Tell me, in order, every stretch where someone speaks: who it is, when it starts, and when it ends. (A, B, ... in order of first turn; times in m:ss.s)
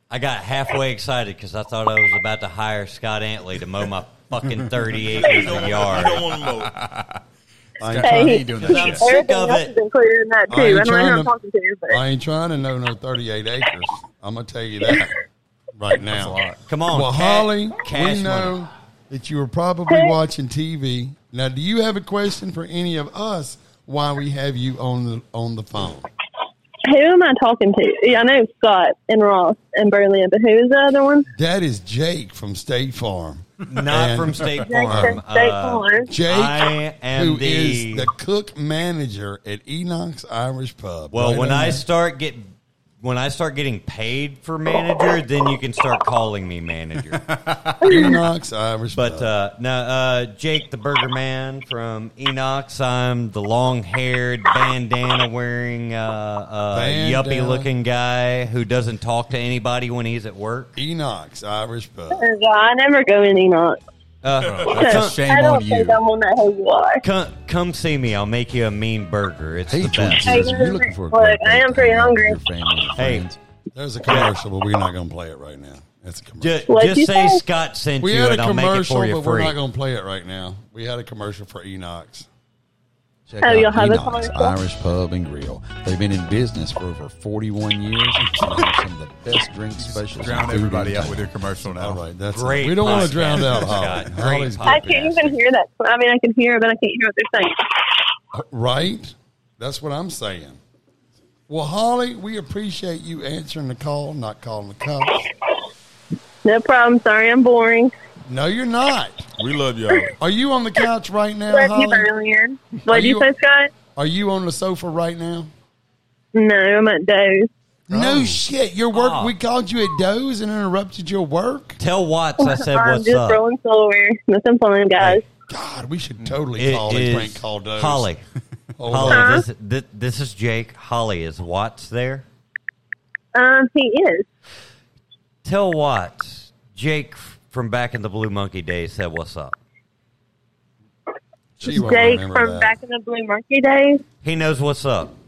0:00.1-0:06.2 A
0:04.7-0:07.2 B
0:05.1-0:06.8 C
0:07.8-0:08.6 D
0:07.8-0:09.1 B
0:08.0-0:12.0 E
0:08.6-0:09.7 A
0:10.5-0:11.3 D
0:11.9-0:15.1 D
0:15.8-0:26.0 D
0:15.9-0:16.6 B
0:16.7-0:18.5 A
0:19.9-0:20.2 E
0:26.9-0:31.3 E
0:31.3-0:35.2 D
0:33.7-0:38.1 A
0:34.6-0:36.1 E
0:36.1-0:41.8 D
0:41.1-0:42.5 A
0:43.0-0:47.2 A
0:47.1-0:47.9 B
0:47.8-0:49.3 D
0:47.8-0:48.2 E
0:48.9-1:00.7 A
0:56.7-0:57.7 D
1:00.8-1:02.2 D
1:02.1-1:03.8 E
1:04.2-1:05.2 A
1:04.4-1:04.7 C
1:04.4-1:06.0 B
1:04.7-1:07.0 E
1:07.0-1:10.5 A
1:09.7-1:13.4 F
1:10.2-1:12.4 E
1:13.0-1:13.3 A
1:13.7-1:16.6 D
1:16.4-1:19.6 A
1:16.7-1:17.4 E
1:18.0-1:22.3 D
1:23.3-1:31.3 F
1:23.4-1:24.6 E
1:29.8-1:32.0 B
1:31.6-1:35.2 D
1:32.3-1:35.3 A
1:34.6-1:37.6 E
1:38.3-1:40.6 D
1:41.5-1:45.2 D
1:46.4-1:47.9 E
1:48.3-1:49.3 D
1:49.4-1:50.1 C
1:50.2-1:52.1 D
1:51.5-1:53.7 E
1:52.9-1:53.3 D
1:53.9-1:55.5 D
1:56.3-1:57.5 E
1:57.9-2:01.8 D
1:58.9-1:59.3 A
2:01.8-2:03.4 A
2:02.4-2:05.2 E
2:05.5-2:08.1 D
2:06.6-2:08.2 A
2:08.8-2:09.4 D
2:08.9-2:12.2 A
2:09.0-2:09.4 E
2:13.3-2:14.2 E
2:15.4-2:19.6 A
2:21.6-2:22.7 D
2:21.6-2:24.0 E
2:24.2-2:25.1 A